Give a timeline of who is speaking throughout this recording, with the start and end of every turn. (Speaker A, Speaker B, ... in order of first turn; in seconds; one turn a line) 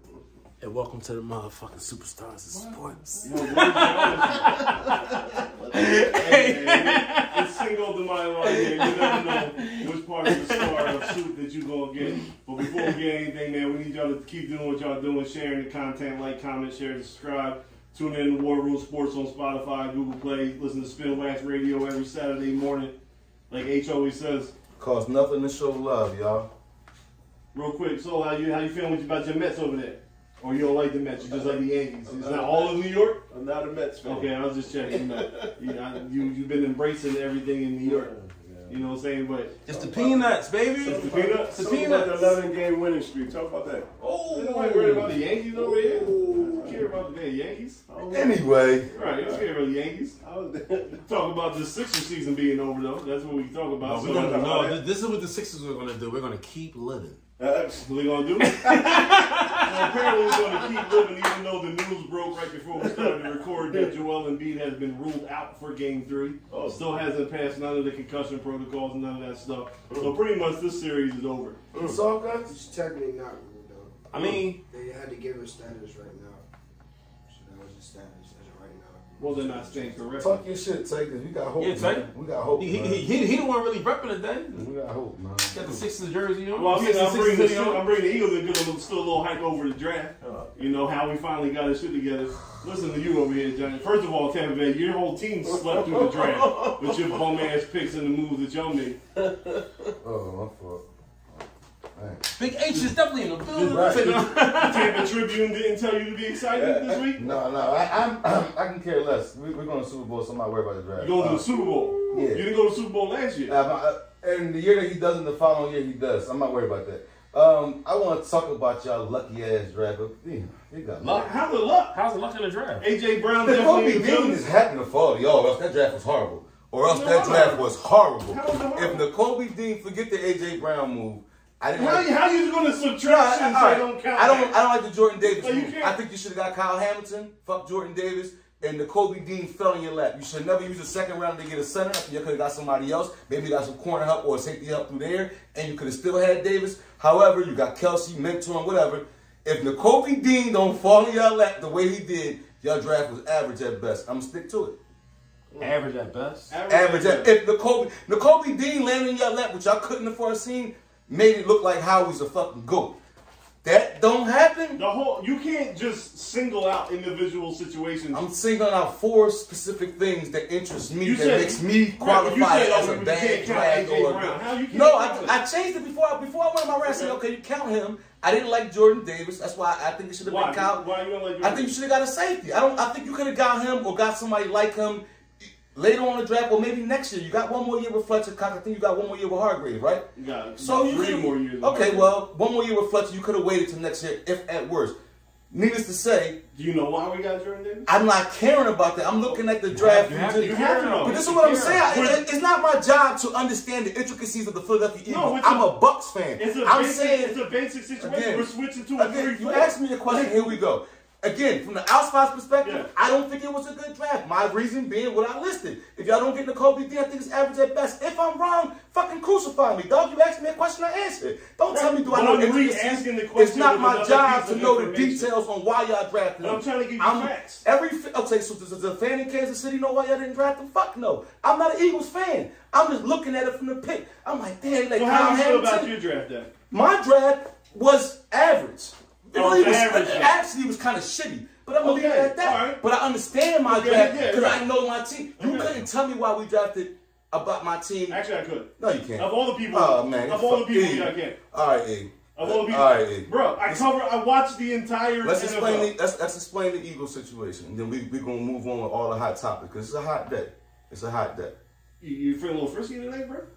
Speaker A: 0.6-7.6
Speaker B: 3.2-4.6
Speaker C: 3.2-4.9
Speaker C: 5.8-22.9
Speaker A: 8.4-11.0
Speaker A: 12.7-12.9
Speaker C: 23.5-24.5
Speaker D: 24.8-26.5
Speaker C: 27.5-33.2
Speaker B: 31.3-34.3
Speaker C: 34.0-38.1
Speaker B: 34.9-35.8
Speaker B: 37.8-38.9
Speaker C: 38.7-39.5
Speaker A: 39.7-42.4
Speaker B: 39.7-46.9
Speaker C: 40.9-41.6
Speaker D: 44.0-45.1
Speaker C: 44.3-47.8
Speaker B: 47.9-49.5
Speaker D: 48.1-48.9
Speaker C: 48.9-50.2
Speaker B: 50.2-51.0
Speaker C: 51.0-54.4
Speaker A: 53.8-57.2
Speaker B: 53.9-54.8
Speaker B: 57.4-57.9
Speaker C: 57.9-58.8
Speaker A: 58.4-60.1
Speaker C: 59.6-71.6
Speaker B: 62.8-63.2
Speaker B: 66.5-66.8
Speaker D: 71.7-72.5
Speaker E: 72.5-76.4
Speaker A: 74.1-74.6
Speaker E: 77.3-80.1
Speaker C: 79.2-80.4
Speaker D: 80.2-83.1
Speaker A: 81.6-84.7
Speaker D: 84.5-85.8
Speaker A: 85.5-87.9
Speaker C: 86.6-99.0
Speaker B: 90.2-90.5
Speaker B: 95.5-97.4
Speaker D: 100.0-100.8
Speaker D: 102.0-102.3
Speaker A: 102.4-105.1
Speaker D: 103.6-104.1
Speaker C: 103.6-107.3
Speaker D: 106.6-111.5
Speaker C: 111.0-113.5
Speaker D: 112.1-112.5
Speaker D: 113.5-121.4
Speaker C: 121.0-122.0
Speaker A: 121.9-122.9
Speaker C: 122.8-124.5
Speaker D: 123.4-132.1
Speaker C: 126.8-127.7
Speaker C: 128.3-129.1
Speaker C: 131.8-134.6
Speaker D: 133.0-154.8
Speaker C: 135.2-136.0
Speaker A: 155.6-156.5
Speaker C: 156.5-157.3
Speaker D: 156.7-163.0
Speaker D: 163.6-164.8
Speaker C: 164.8-168.2
Speaker D: 168.1-180.8
Speaker C: 171.0-175.4
Speaker C: 176.8-177.2
Speaker C: 180.2-181.7
Speaker D: 181.4-190.1
Speaker C: 190.2-192.1
Speaker D: 190.6-194.9
Speaker D: 195.5-196.4
Speaker C: 196.6-197.9
Speaker D: 197.9-207.4
Speaker A: 199.7-201.9
Speaker C: 200.4-201.2
Speaker C: 201.8-202.2
Speaker C: 205.1-205.7
Speaker C: 206.4-210.6
Speaker D: 208.0-235.9
Speaker C: 212.6-212.9
Speaker C: 221.7-225.3
Speaker C: 226.4-227.7
Speaker C: 234.9-236.5
Speaker D: 236.7-248.2
Speaker C: 239.3-240.4
Speaker C: 241.8-242.8
Speaker C: 243.7-244.7
Speaker C: 245.4-245.8
Speaker C: 248.1-251.4
Speaker D: 248.8-253.9
Speaker C: 252.3-255.9
Speaker D: 255.2-261.5
Speaker C: 262.0-263.5